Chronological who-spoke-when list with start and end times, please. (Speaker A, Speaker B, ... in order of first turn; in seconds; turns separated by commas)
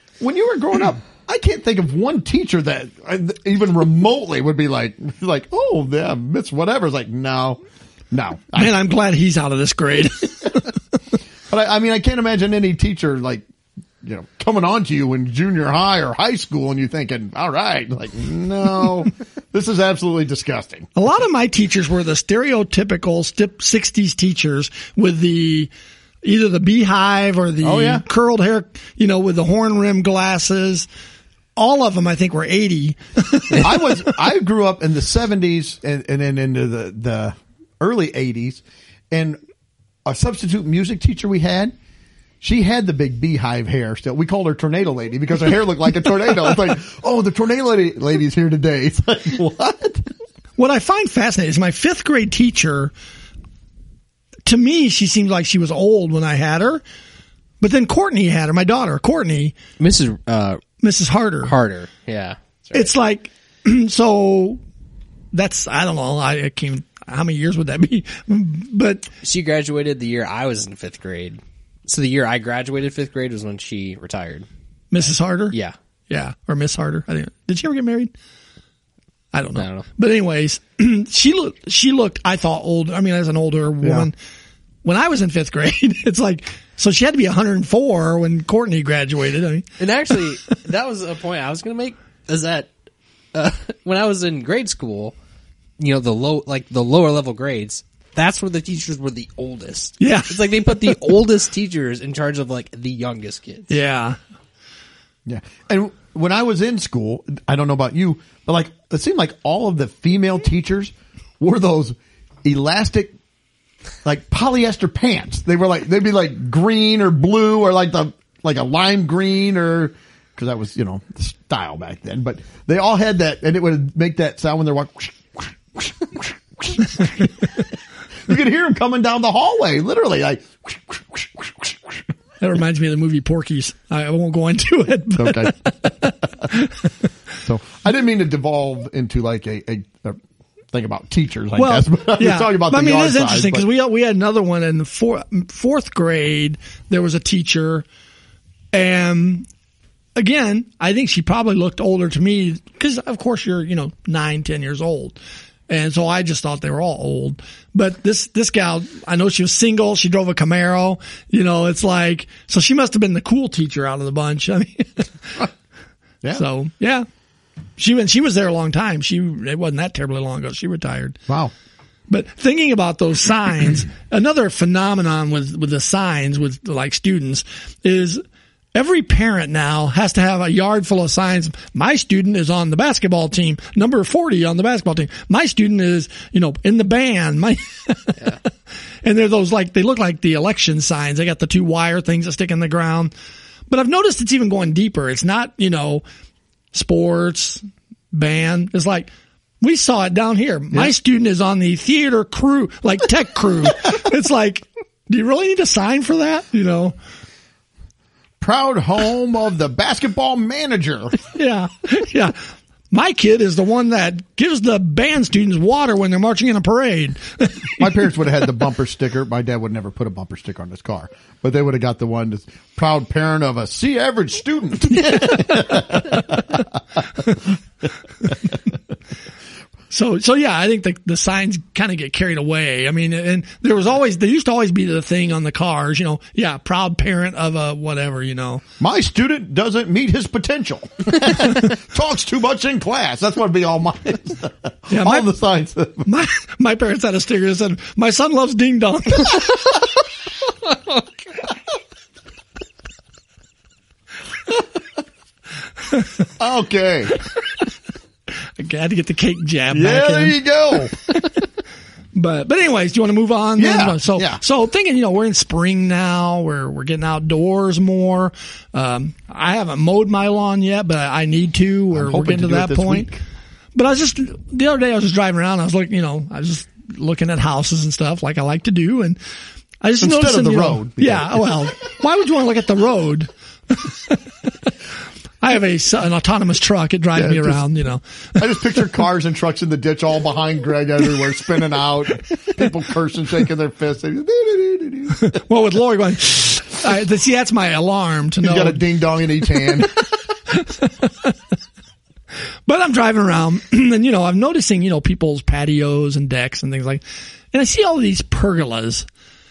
Speaker A: 0.2-7.6, Speaker A: 8.1-8.8, Speaker B: 8.6-10.7, Speaker A: 11.5-13.4, Speaker A: 14.0-20.9, Speaker B: 20.9-25.7, Speaker B: 26.2-30.9, Speaker A: 27.6-28.0, Speaker B: 31.6-34.1, Speaker A: 33.6-39.4, Speaker A: 40.0-41.7, Speaker A: 42.4-50.1, Speaker B: 50.6-52.9, Speaker B: 54.5-56.8, Speaker B: 57.6-59.6, Speaker C: 59.8-60.6, Speaker B: 60.8-61.5, Speaker C: 61.4-62.8, Speaker B: 62.7-64.6, Speaker B: 65.3-69.1, Speaker C: 69.2-74.5, Speaker B: 74.9-75.5, Speaker B: 76.1-78.1, Speaker B: 79.3-84.2, Speaker C: 79.6-79.9, Speaker A: 83.8-84.1, Speaker B: 84.8-89.7, Speaker C: 89.8-92.7, Speaker C: 93.3-95.2, Speaker C: 95.8-103.7, Speaker B: 100.0-101.0, Speaker B: 103.7-104.2, Speaker A: 105.3-113.1, Speaker A: 114.0-127.6, Speaker A: 128.3-132.1, Speaker B: 132.4-136.8, Speaker A: 135.2-135.6, Speaker A: 137.4-140.2, Speaker A: 140.7-143.7, Speaker B: 141.6-147.8, Speaker B: 148.7-149.5, Speaker B: 150.2-155.2, Speaker B: 155.7-165.5, Speaker B: 166.3-167.1, Speaker B: 167.8-171.2, Speaker A: 171.3-171.5, Speaker B: 172.1-178.2, Speaker B: 178.8-188.3, Speaker B: 189.0-193.1, Speaker B: 193.7-196.0, Speaker B: 196.7-199.1, Speaker B: 199.6-207.0, Speaker A: 208.4-211.2, Speaker B: 211.3-217.9, Speaker A: 217.8-227.5, Speaker B: 229.9-238.6, Speaker A: 238.8-246.1, Speaker B: 244.9-245.3, Speaker B: 246.1-249.8, Speaker B: 255.9-256.2, Speaker A: 256.4-257.1, Speaker B: 258.6-260.4, Speaker A: 259.7-260.9, Speaker B: 262.1-273.1, Speaker A: 263.6-264.4, Speaker A: 271.9-273.2, Speaker B: 273.8-279.2, Speaker B: 279.8-284.2, Speaker A: 280.0-281.7, Speaker B: 285.4-288.8, Speaker A: 287.1-287.6, Speaker A: 288.4-295.4, Speaker B: 295.1-298.8, Speaker A: 298.4-299.9, Speaker B: 300.5-301.4, Speaker B: 302.7-309.1